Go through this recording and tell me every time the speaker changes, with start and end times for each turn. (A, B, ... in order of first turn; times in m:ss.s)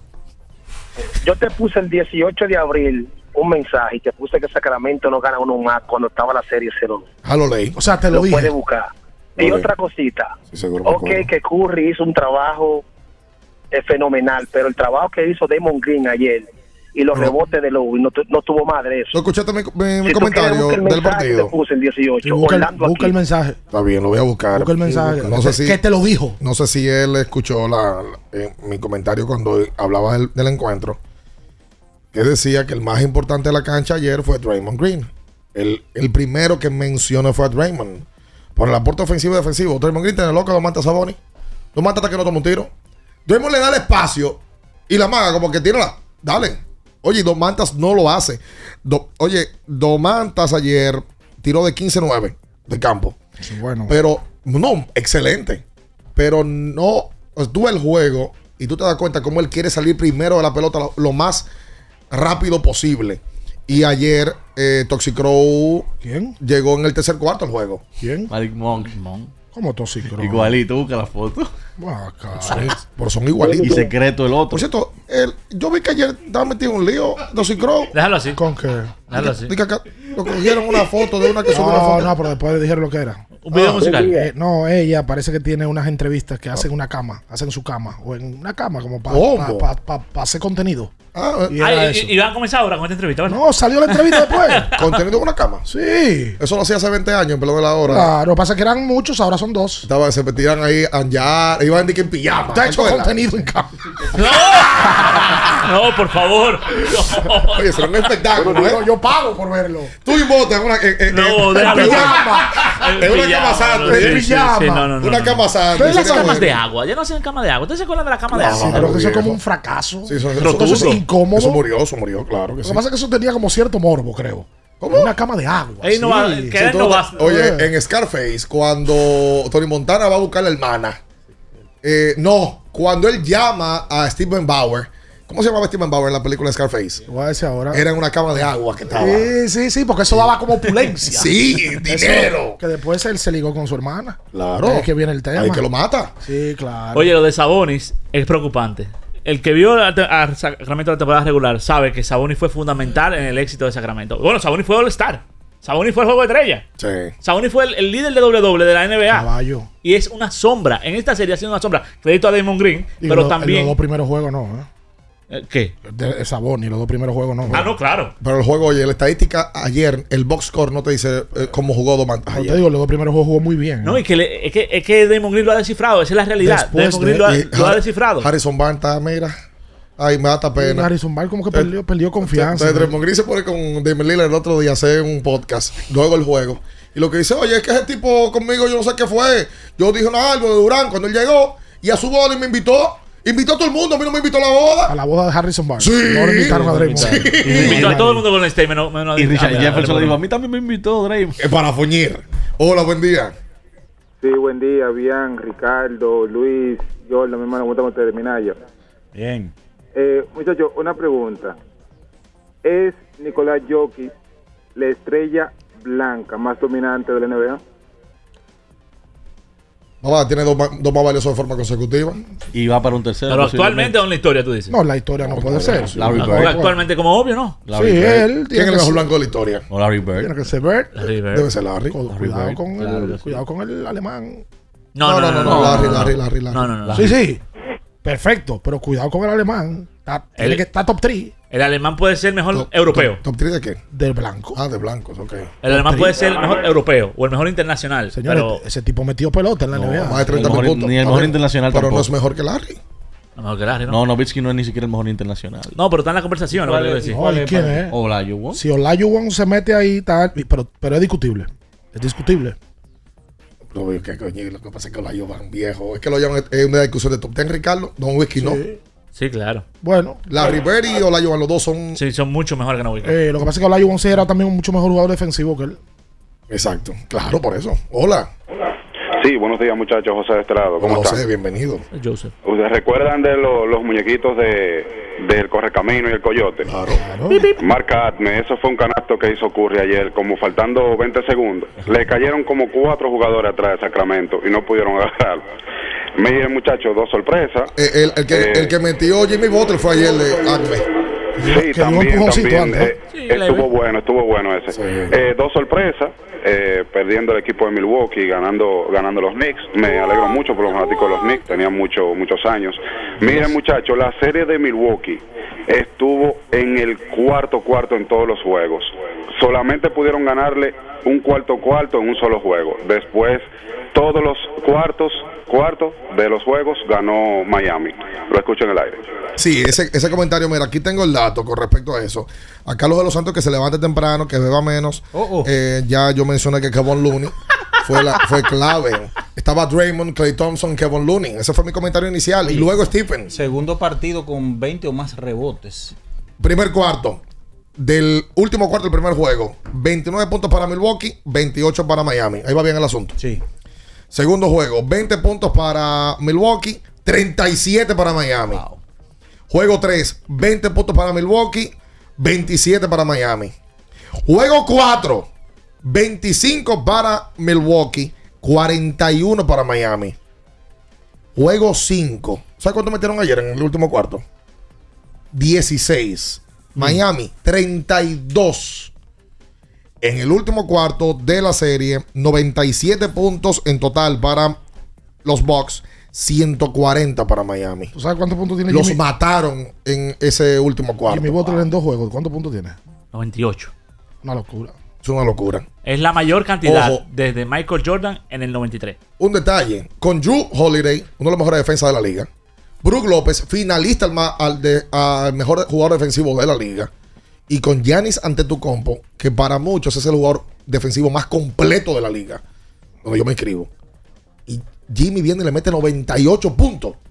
0:01.2-0:07.0 A
0:07.2-0:07.8 B
0:07.8-0:08.5 C
0:08.1-0:10.3 A
0:09.4-0:09.7 B
0:10.5-0:11.3 B
0:10.8-0:12.8 A
0:13.7-0:19.1 A
0:19.1-0:21.5 B
0:20.0-0:23.1 A
0:22.2-0:23.6 C
0:23.7-0:25.8 B
0:24.5-0:26.4 C
0:26.4-0:31.0 B
0:32.1-0:41.2 B
0:41.7-0:42.7 B
0:43.2-0:53.2 B
0:53.4-0:53.9 C
0:53.9-0:55.6 B
0:56.2-1:01.4 B
1:02.1-1:05.9 B
1:06.0-1:06.4 C
1:06.4-1:07.8 B
1:08.0-1:08.3 C
1:08.3-1:09.0 D
1:08.9-1:09.2 E
1:09.5-1:10.6 C
1:10.2-1:11.5 D
1:11.8-1:12.8 C
1:12.5-1:13.9 B
1:13.6-1:14.6 D
1:14.5-1:17.9 B
1:17.9-1:18.4 E
1:18.3-1:19.1 C
1:19.1-1:19.5 E
1:19.1-1:22.1 B
1:21.5-1:30.9 C
1:23.4-1:24.2 E
1:29.1-1:29.6 B
1:31.1-1:31.6 B
1:31.5-1:32.1 C
1:31.6-1:34.8 E
1:33.3-1:34.7 C
1:34.8-1:35.6 B
1:35.7-1:36.4 C
1:36.4-1:38.1 B
1:37.9-1:39.9 C
1:39.8-1:43.1 B
1:42.5-1:43.8 C
1:44.1-1:48.1 E
1:44.3-1:45.5 C
1:47.5-1:48.9 B
1:48.3-1:49.9 C
1:50.0-1:54.3 B
1:51.1-1:58.9 E
1:51.5-1:53.0 C
1:53.8-1:55.0 C
1:55.0-1:56.6 B
1:55.7-1:56.6 C
1:58.3-1:59.4 B
1:58.3-2:01.6 C
2:00.0-2:02.8 B
2:00.4-2:01.0 E
2:02.6-2:07.7 C
2:04.8-2:05.1 B
2:05.8-2:07.2 E
2:06.6-2:11.0 B
2:11.8-2:17.0 B
2:17.1-2:17.8 C
2:17.7-2:19.3 B
2:18.9-2:25.6 C
2:21.1-2:22.6 B
2:24.3-2:26.1 B
2:26.2-2:27.1 C
2:26.9-2:36.6 E
2:36.8-2:37.1 B
2:37.2-2:39.3 E
2:39.1-2:39.7 C
2:39.8-2:43.8 E
2:43.0-2:44.7 C
2:45.3-2:45.7 E
2:45.8-2:47.7 C
2:47.5-2:48.1 E
2:47.5-2:52.6 B
2:52.3-2:54.0 C
2:53.8-2:58.3 E
2:56.4-2:57.3 C
2:57.2-2:59.3 B
3:00.0-3:00.9 B
3:00.6-3:02.9 C
3:02.2-3:14.9 B
3:14.9-3:18.2 C
3:15.8-3:17.8 B
3:16.7-3:20.2 E
3:17.4-3:18.2 D
3:19.2-3:21.4 D
3:21.4-3:23.3 B
3:24.2-3:28.6 F
3:29.1-3:29.5 G
3:29.9-3:31.6 F
3:32.6-3:34.1 F
3:34.8-3:37.6 F
3:40.0-3:42.2 B
3:42.5-3:44.0 D
3:43.3-3:44.8 E
3:44.7-3:46.8 C
3:45.3-3:46.2 B
3:45.9-3:46.6 D
3:46.2-3:47.6 E
3:47.6-3:48.3 D
3:47.7-3:49.0 C
3:48.5-3:49.6 B
3:49.7-3:50.3 D
3:50.1-3:51.1 C
3:50.9-3:51.5 E
3:51.3-3:52.0 B
3:51.9-3:54.4 C
3:52.1-3:53.4 D
3:54.9-3:57.1 E
3:55.0-3:56.7 B
3:55.4-3:56.1 D
3:56.8-3:57.1 D
3:56.9-3:57.4 C
3:58.0-4:01.3 C
4:00.4-4:00.6 E
4:01.5-4:03.2 E
4:02.5-4:03.8 B
4:03.9-4:04.6 C
4:04.5-4:05.5 B
4:05.6-4:08.6 E
4:05.7-4:06.2 C
4:08.1-4:10.7 C
4:09.7-4:12.1 D
4:10.0-4:12.8 B
4:13.4-4:14.0 E
4:13.9-4:15.7 D
4:15.7-4:17.2 E
4:16.5-4:17.8 G
4:17.0-4:18.0 C
4:17.9-4:18.6 D
4:18.5-4:22.6 C
4:23.7-4:28.6 B
4:28.4-4:28.8 C
4:29.1-4:29.6 E
4:29.8-4:30.2 C
4:30.3-4:32.0 B
4:32.0-4:33.2 E
4:33.0-4:35.8 C
4:36.5-4:38.3 B
4:40.5-4:40.8 A
4:40.8-4:41.8 B
4:41.9-4:42.3 E
4:46.6-4:47.0 B
4:46.9-4:47.5 C
4:47.3-4:47.7 E
4:47.9-4:48.2 H
4:48.9-4:55.4 H
4:56.2-4:56.8 H
4:57.7-5:00.8 B
4:58.4-4:58.6 H
5:01.4-5:02.9 C
5:01.5-5:02.8 H
5:03.1-5:03.7 E
5:03.5-5:04.2 H
5:04.7-5:05.2 B
5:05.5-5:06.0 H
5:06.6-5:12.3 H
5:13.2-5:15.2 H
5:15.7-5:18.8 H
5:19.6-5:23.4 H
5:23.9-5:26.1 H
5:29.4-5:43.4 B
5:35.1-5:35.5 G
5:42.4-5:42.7 G
5:43.3-5:45.9 G
5:46.4-5:47.2 B
5:47.8-5:53.2 B
5:54.1-5:58.6 B
5:59.5-6:03.5 B
6:04.3-6:05.3 B
6:05.8-6:10.2 B
6:11.4-6:14.2 B
6:15.3-6:18.9 B
6:20.0-6:24.6 B
6:25.2-6:27.9 B
6:27.9-6:29.0 C
6:28.7-6:31.6 B
6:31.1-6:32.8 C
6:33.1-6:33.7 E
6:34.2-6:34.8 C
6:35.0-6:35.7 B
6:35.8-6:39.0 E
6:36.6-6:37.0 B
6:39.2-6:42.3 B
6:42.8-6:46.9 B
6:47.5-6:52.4 B
6:53.0-6:53.7 B
6:54.5-6:57.0 B